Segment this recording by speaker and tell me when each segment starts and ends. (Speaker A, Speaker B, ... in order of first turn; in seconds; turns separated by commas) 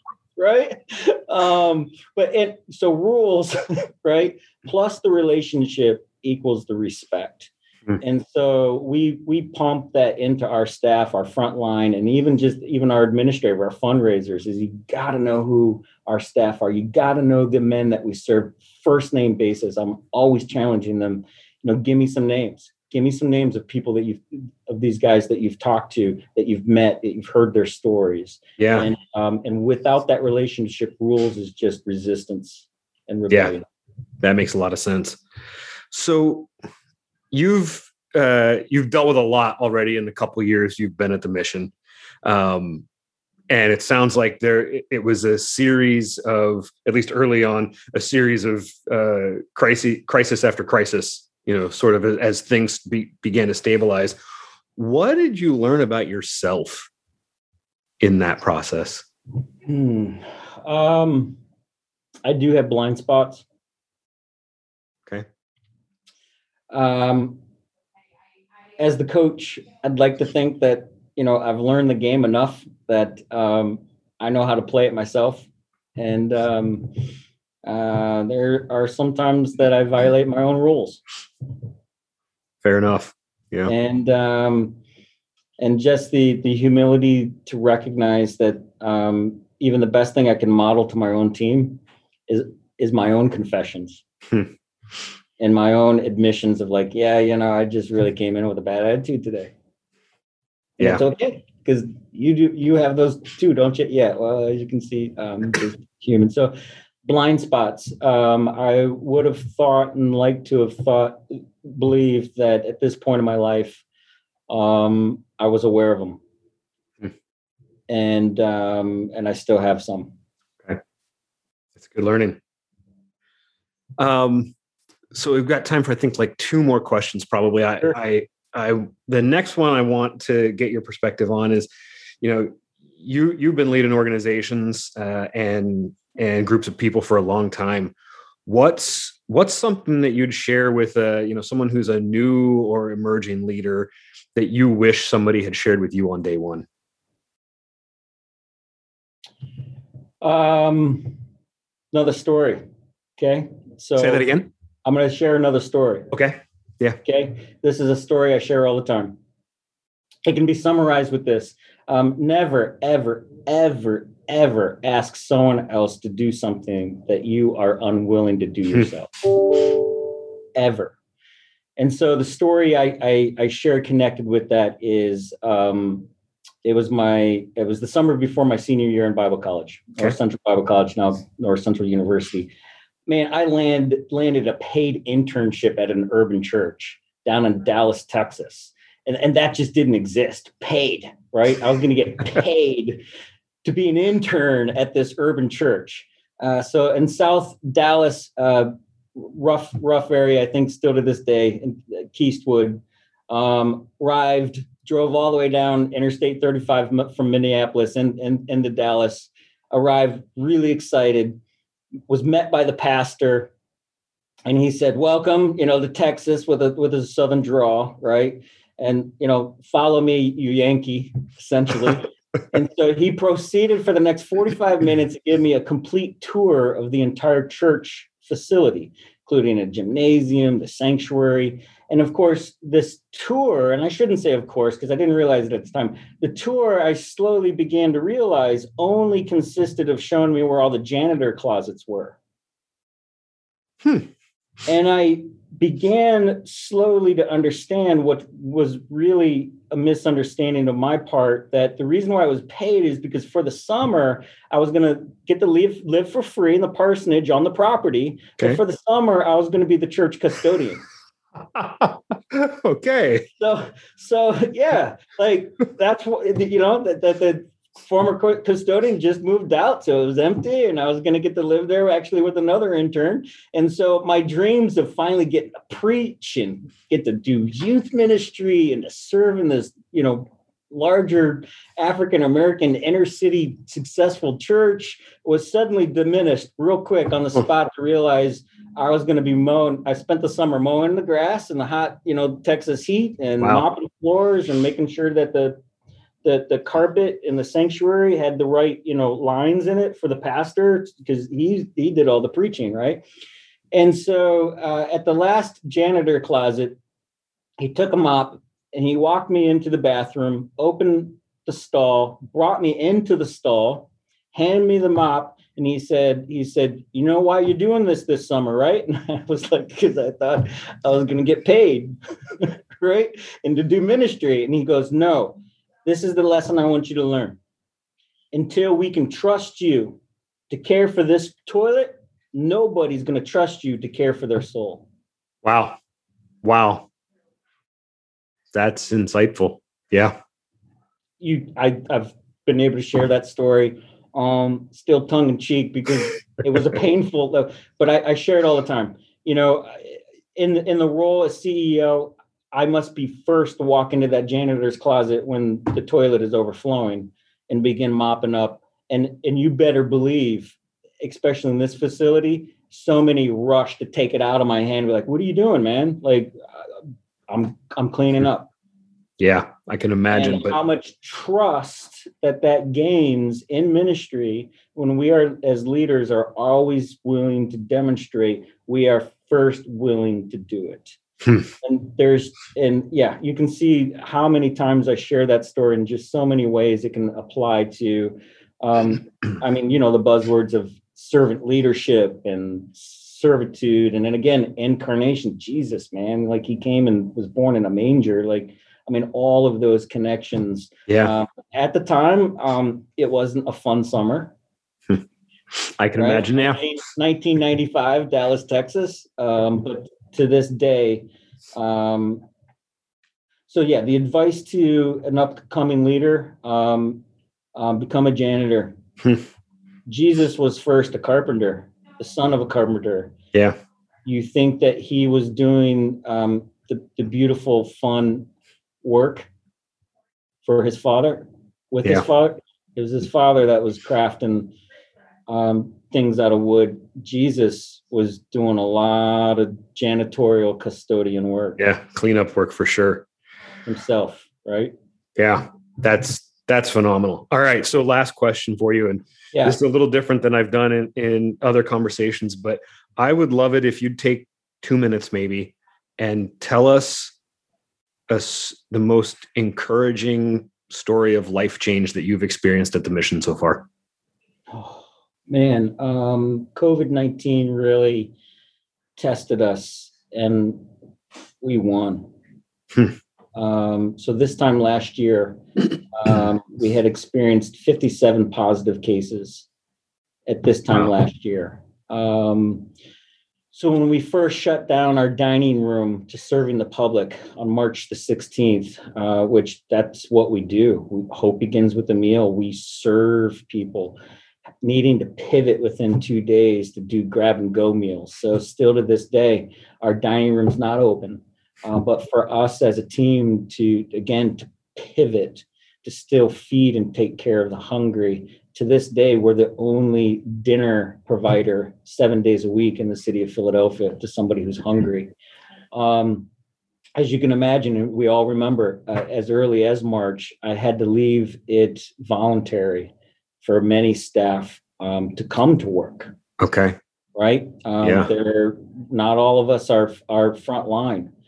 Speaker A: 0.4-33.6, Speaker B: 28.6-28.9, Speaker B: 33.3-33.6, Speaker B: 34.2-35.2, Speaker B: 35.9-36.5, Speaker B: 37.3-41.7, Speaker B: 42.2-42.9, Speaker B: 43.5-54.2, Speaker B: 54.8-56.9, Speaker B: 58.0-59.1, Speaker A: 59.6-61.4, Speaker A: 62.2-63.4, Speaker A: 66.7-67.4, Speaker A: 68.8-77.0, Speaker A: 77.6-81.0, Speaker B: 82.6-83.7, Speaker A: 83.7-84.8, Speaker A: 85.6-94.0, Speaker A: 95.4-99.5, Speaker A: 100.8-106.5, Speaker A: 107.0-113.8, Speaker A: 114.5-116.2, Speaker A: 117.9-120.1, Speaker B: 121.8-122.4, Speaker B: 124.0-124.5, Speaker B: 125.1-131.7, Speaker B: 132.2-137.9, Speaker B: 138.5-146.7, Speaker A: 150.2-151.2, Speaker A: 151.9-152.6, Speaker A: 153.2-154.3, Speaker B: 154.0-154.5, Speaker A: 154.8-156.1, Speaker B: 156.1-157.0, Speaker A: 157.0-159.2, Speaker A: 160.2-169.9, Speaker A: 170.6-170.9, Speaker A: 171.8-176.1, Speaker A: 176.6-182.5, Speaker A: 183.1-193.0, Speaker A: 193.6-211.4, Speaker A: 212.1-213.5, Speaker A: 214.5-242.2, Speaker A: 244.7-260.8, Speaker B: 261.5-263.3, Speaker A: 263.4-295.6, Speaker A: 296.2-303.0, Speaker A: 303.7-306.8, Speaker A: 307.6-327.4, Speaker A: 328.3-330.0, Speaker A: 330.5-334.9, Speaker B: 335.4-335.8, Speaker B: 336.4-336.9, Speaker B: 338.5-340.2, Speaker A: 341.2-368.5, Speaker B: 369.2-370.6, Speaker A: 370.1-381.0, Speaker A: 381.6-404.3, Speaker B: 400.9-401.1, Speaker B: 405.6-406.6, Speaker A: 406.0-412.2, Speaker A: 413.5-417.0, Speaker A: 417.6-418.8, Speaker A: 419.9-423.1, Speaker A: 424.1-428.3, Speaker A: 428.8-429.3, Speaker A: 430.4-434.5, Speaker A: 435.3-441.6, Speaker B: 441.6-443.1, Speaker A: 443.7-444.7, Speaker B: 445.2-457.1, Speaker A: 449.3-449.6, Speaker B: 458.1-463.7, Speaker A: 464.5-468.1, Speaker A: 469.0-470.7, Speaker A: 471.4-472.1, Speaker A: 473.4-479.5, Speaker A: 480.3-482.7, Speaker A: 483.5-494.0, Speaker A: 494.6-515.1, Speaker A: 515.7-516.3, Speaker A: 517.0-526.1, Speaker B: 526.4-526.8, Speaker A: 527.1-531.1, Speaker B: 527.8-528.1